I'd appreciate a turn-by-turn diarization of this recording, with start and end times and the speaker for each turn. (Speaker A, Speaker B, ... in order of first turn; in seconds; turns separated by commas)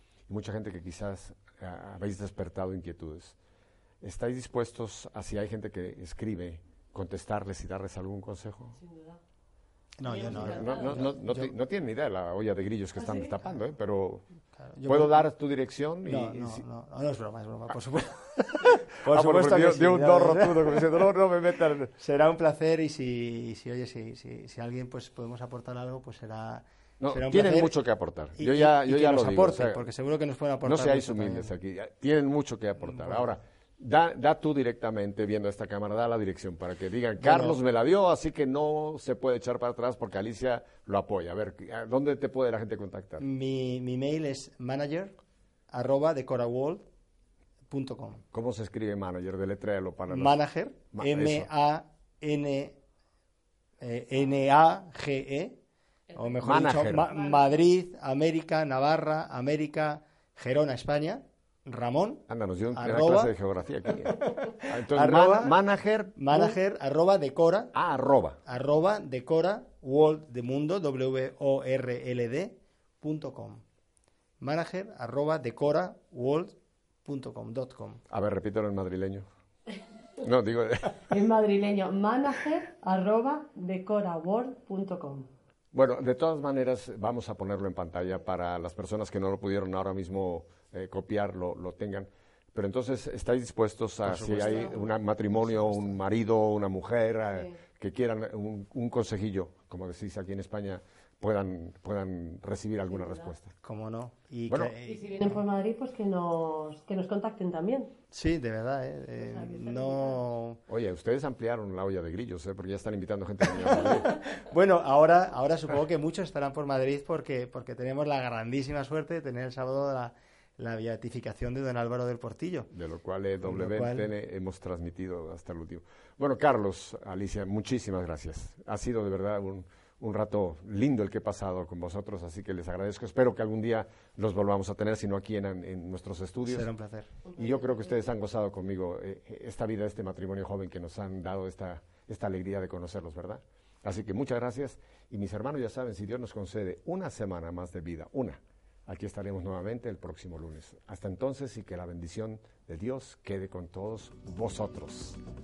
Speaker A: 0.3-3.4, Speaker A: 4.0-8.8, Speaker B: 8.8-9.2, Speaker C: 10.0-11.5, Speaker B: 10.1-11.1, Speaker A: 10.3-14.3, Speaker B: 12.9-13.3, Speaker C: 14.6-15.3, Speaker A: 14.9-16.6, Speaker C: 16.1-21.1, Speaker A: 18.6-21.9, Speaker C: 21.9-27.7, Speaker A: 27.0-29.8, Speaker C: 28.4-31.5, Speaker A: 30.6-43.3, Speaker C: 32.8-33.3, Speaker C: 37.2-37.6, Speaker C: 43.2-45.2, Speaker C: 45.7-46.9, Speaker C: 47.7-48.2, Speaker A: 48.3-50.4, Speaker C: 50.1-52.8, Speaker A: 50.9-51.5, Speaker C: 53.8-55.6, Speaker B: 56.1-56.5, Speaker C: 56.1-63.3, Speaker A: 56.4-57.1, Speaker B: 57.1-57.4, Speaker A: 62.3-66.3, Speaker C: 64.1-65.6, Speaker C: 66.2-67.7, Speaker A: 67.7-68.4, Speaker C: 68.5-73.6, Speaker C: 74.4-78.0, Speaker A: 78.1-79.3, Speaker A: 80.2-81.1, Speaker B: 81.1-85.3, Speaker A: 85.7-103.5, Speaker C: 94.0-96.0, Speaker B: 94.4-94.9, Speaker B: 97.3-97.6, Speaker B: 102.9-103.3, Speaker C: 103.6-105.4, Speaker A: 104.5-104.8, Speaker B: 104.8-107.9, Speaker C: 108.1-110.6, Speaker B: 109.2-110.2, Speaker A: 110.7-114.3, Speaker C: 113.6-122.7, Speaker A: 122.7-136.7, Speaker C: 123.4-124.1, Speaker C: 136.4-137.2, Speaker B: 137.3-138.0, Speaker A: 137.4-155.2